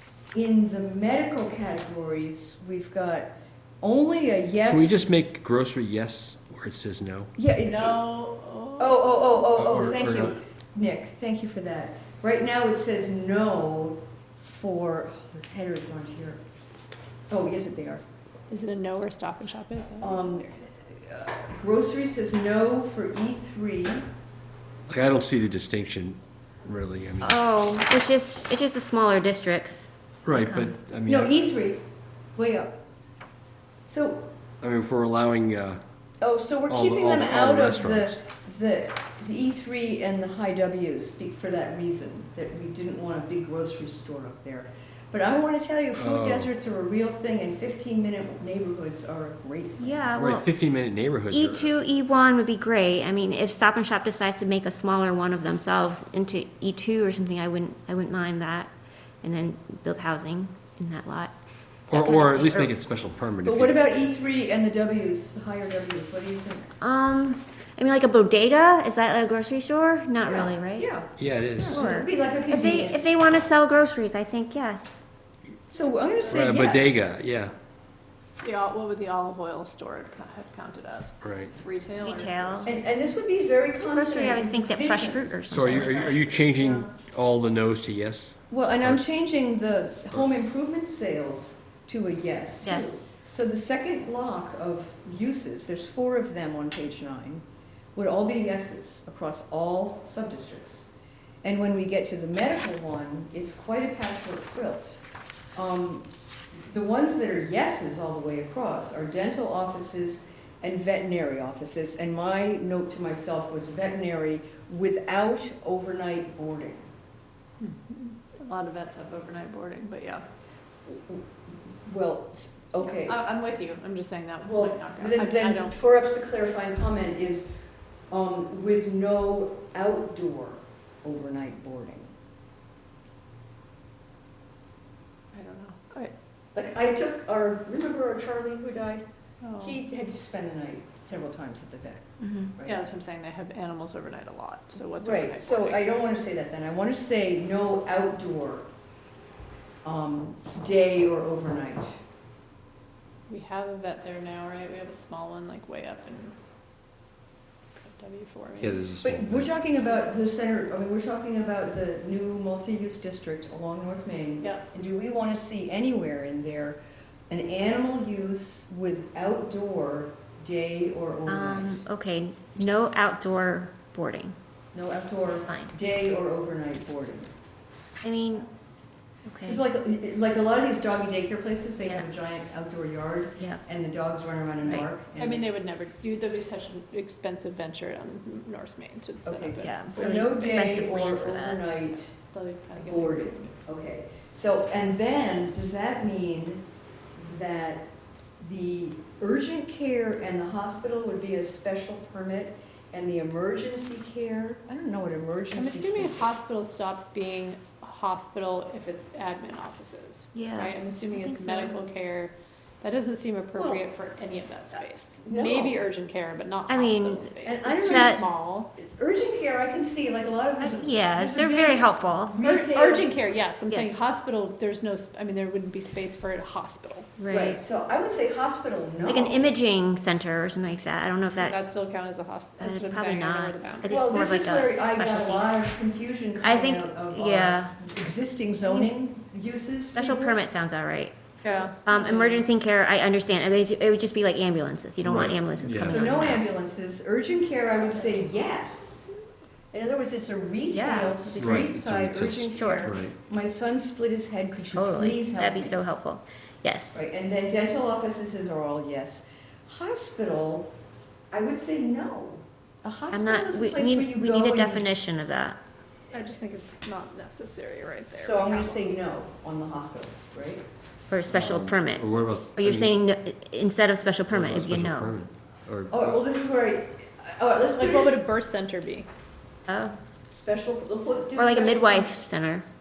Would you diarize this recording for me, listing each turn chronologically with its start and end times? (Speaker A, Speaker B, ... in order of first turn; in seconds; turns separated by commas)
Speaker A: 0.3-5.0, Speaker B: 4.6-7.3, Speaker A: 7.3-8.0, Speaker C: 7.6-9.3, Speaker A: 8.8-16.4, Speaker B: 9.5-10.4, Speaker A: 17.3-18.0, Speaker C: 18.5-20.6, Speaker A: 20.0-24.1, Speaker B: 24.9-27.4, Speaker D: 27.2-30.7, Speaker B: 30.2-31.4, Speaker A: 31.1-31.8, Speaker A: 32.4-32.7, Speaker A: 33.9-34.3, Speaker B: 34.6-35.8, Speaker A: 36.2-50.1, Speaker B: 36.7-38.2, Speaker B: 45.9-46.5, Speaker D: 49.8-50.5, Speaker B: 50.2-51.7, Speaker D: 51.3-61.3, Speaker B: 61.9-63.8, Speaker D: 61.9-62.7, Speaker A: 63.4-66.7, Speaker D: 66.8-70.9, Speaker A: 70.2-73.1, Speaker B: 71.2-71.8, Speaker D: 71.7-75.0, Speaker A: 75.7-77.1, Speaker C: 76.0-76.4, Speaker B: 76.3-77.5, Speaker C: 78.4-82.7, Speaker B: 81.2-81.5, Speaker D: 82.0-82.7, Speaker A: 82.6-85.9, Speaker D: 83.8-86.3, Speaker B: 85.5-89.0, Speaker C: 86.4-86.8, Speaker A: 88.5-97.4, Speaker D: 92.6-93.1, Speaker A: 97.9-100.9, Speaker A: 101.4-105.0, Speaker A: 105.5-116.9, Speaker C: 117.6-120.2, Speaker A: 120.9-123.2, Speaker C: 122.8-125.8, Speaker A: 124.4-127.5, Speaker A: 128.1-132.1, Speaker C: 135.3-136.1, Speaker A: 136.5-139.0, Speaker C: 139.4-139.8, Speaker A: 139.6-142.8, Speaker D: 142.2-142.5, Speaker C: 142.7-145.9, Speaker A: 145.0-148.7, Speaker A: 149.8-151.9, Speaker C: 153.3-156.4, Speaker C: 157.8-158.8, Speaker B: 158.6-159.6, Speaker A: 159.0-171.8, Speaker D: 171.2-174.3, Speaker A: 174.7-177.3, Speaker D: 175.5-175.7, Speaker D: 178.0-178.5, Speaker D: 179.3-179.6, Speaker A: 179.4-185.5, Speaker D: 184.6-184.9, Speaker C: 185.2-190.2, Speaker A: 189.2-192.2, Speaker D: 189.6-191.6, Speaker C: 192.3-193.7, Speaker A: 192.7-196.6, Speaker A: 197.2-197.9, Speaker A: 198.4-206.3, Speaker C: 205.5-218.7, Speaker D: 210.3-211.7, Speaker A: 213.6-213.8, Speaker A: 215.2-215.8, Speaker D: 216.7-217.3, Speaker A: 217.4-223.1, Speaker D: 217.8-218.2, Speaker D: 220.6-222.4, Speaker C: 222.4-227.1, Speaker D: 223.7-223.9, Speaker D: 227.2-227.6, Speaker A: 227.3-229.5, Speaker D: 229.1-231.6, Speaker C: 231.3-234.2, Speaker D: 232.6-235.5, Speaker A: 233.9-240.4, Speaker D: 236.4-237.8, Speaker D: 238.6-238.9, Speaker D: 239.9-241.1, Speaker C: 241.4-242.5, Speaker D: 241.8-246.5, Speaker B: 245.0-246.1, Speaker A: 245.8-249.1, Speaker C: 247.8-248.6, Speaker A: 249.7-255.8, Speaker D: 250.7-251.7, Speaker B: 251.4-253.1, Speaker D: 252.6-252.9, Speaker D: 254.7-257.0, Speaker A: 256.9-260.7, Speaker A: 261.3-264.9, Speaker D: 263.1-265.6, Speaker C: 266.1-269.0, Speaker A: 268.1-270.6, Speaker D: 271.1-275.1, Speaker B: 271.3-272.9, Speaker B: 274.3-276.2, Speaker A: 275.9-278.2, Speaker C: 277.8-279.1, Speaker D: 279.7-279.9, Speaker A: 280.3-282.1, Speaker D: 281.4-282.6